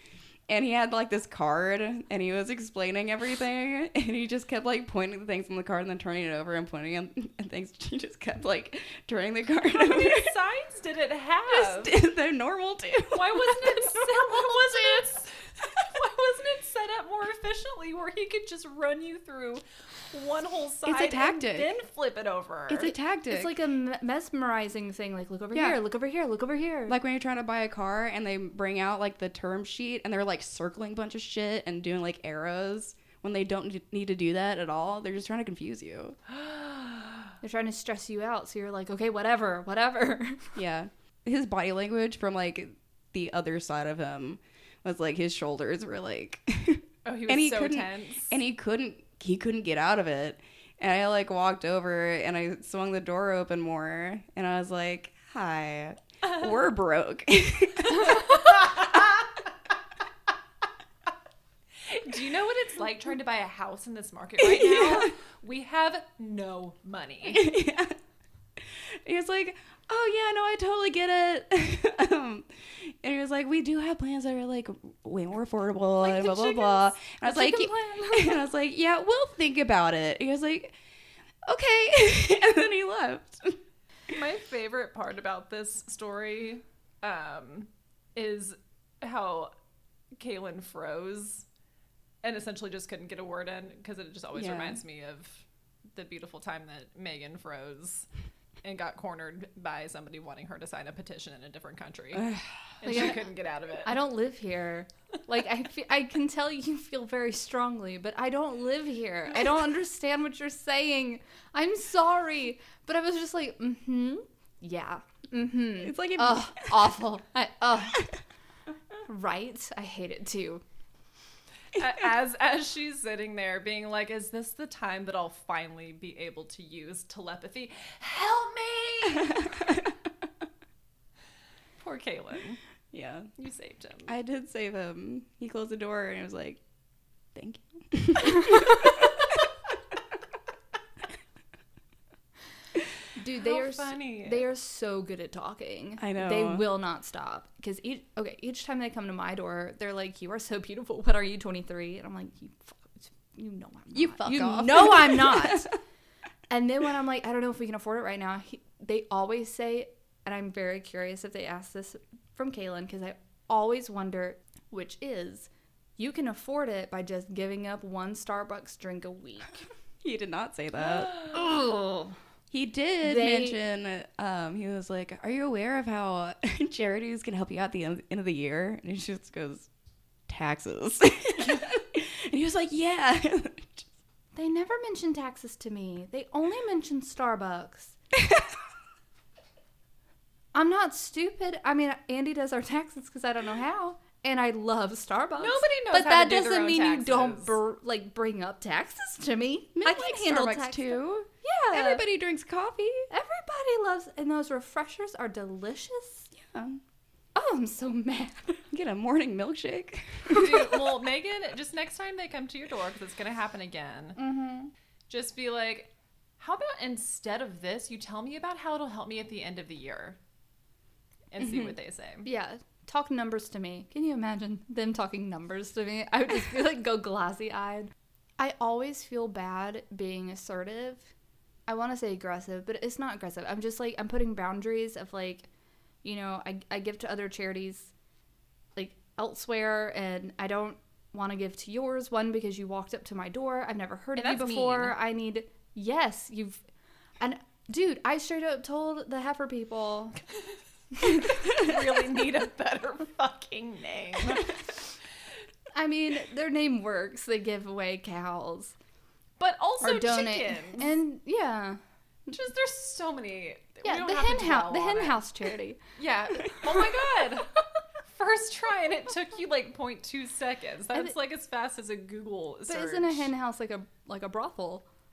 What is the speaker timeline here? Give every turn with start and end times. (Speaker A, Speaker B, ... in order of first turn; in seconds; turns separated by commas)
Speaker A: 0.5-10.3, Speaker B: 9.7-11.9, Speaker A: 11.5-14.5, Speaker B: 13.1-22.9, Speaker A: 20.9-21.7, Speaker A: 22.7-23.5, Speaker C: 22.9-26.9, Speaker A: 25.5-25.8, Speaker A: 26.9-36.2, Speaker B: 36.3-37.3, Speaker C: 37.4-40.6, Speaker A: 40.5-58.4, Speaker B: 47.0-48.4, Speaker B: 61.8-67.5, Speaker A: 64.4-65.1, Speaker A: 67.2-68.0, Speaker A: 68.6-80.8, Speaker C: 76.0-78.4, Speaker A: 81.4-84.2, Speaker B: 84.1-89.5, Speaker B: 90.2-91.5, Speaker B: 92.2-98.1, Speaker A: 94.3-94.8, Speaker B: 98.6-102.3, Speaker A: 102.1-102.8, Speaker B: 102.8-104.0, Speaker C: 102.9-103.2, Speaker C: 103.8-118.1, Speaker A: 115.8-116.8, Speaker C: 119.0-120.6, Speaker B: 121.8-129.5, Speaker B: 131.8-132.6, Speaker A: 132.9-133.3, Speaker B: 133.4-134.1, Speaker A: 134.1-136.6, Speaker A: 137.3-139.1, Speaker C: 143.2-155.7, Speaker B: 143.3-144.4, Speaker A: 146.0-146.6, Speaker A: 153.9-155.8, Speaker C: 156.5-169.7, Speaker A: 170.0-171.2, Speaker C: 171.2-172.2, Speaker A: 172.5-179.7, Speaker C: 173.0-173.6, Speaker A: 180.3-183.8, Speaker C: 184.3-188.0, Speaker C: 190.5-202.0, Speaker B: 195.4-197.5, Speaker A: 199.7-203.1, Speaker C: 203.1-206.3, Speaker A: 206.3-206.8, Speaker C: 207.3-208.6, Speaker A: 208.7-210.6, Speaker B: 210.3-214.2, Speaker C: 214.2-214.7, Speaker B: 215.1-220.2, Speaker B: 221.3-222.2, Speaker A: 221.4-221.7, Speaker C: 222.2-231.1, Speaker C: 231.7-235.5, Speaker C: 236.0-237.9, Speaker C: 238.7-246.7, Speaker B: 244.2-244.9, Speaker C: 247.2-250.2, Speaker C: 251.0-251.4, Speaker B: 251.3-254.7, Speaker C: 255.7-258.8, Speaker B: 259.4-260.9, Speaker C: 259.8-262.3, Speaker B: 262.3-265.2, Speaker C: 263.8-265.8, Speaker B: 265.9-267.5, Speaker B: 268.1-273.3, Speaker C: 272.7-274.8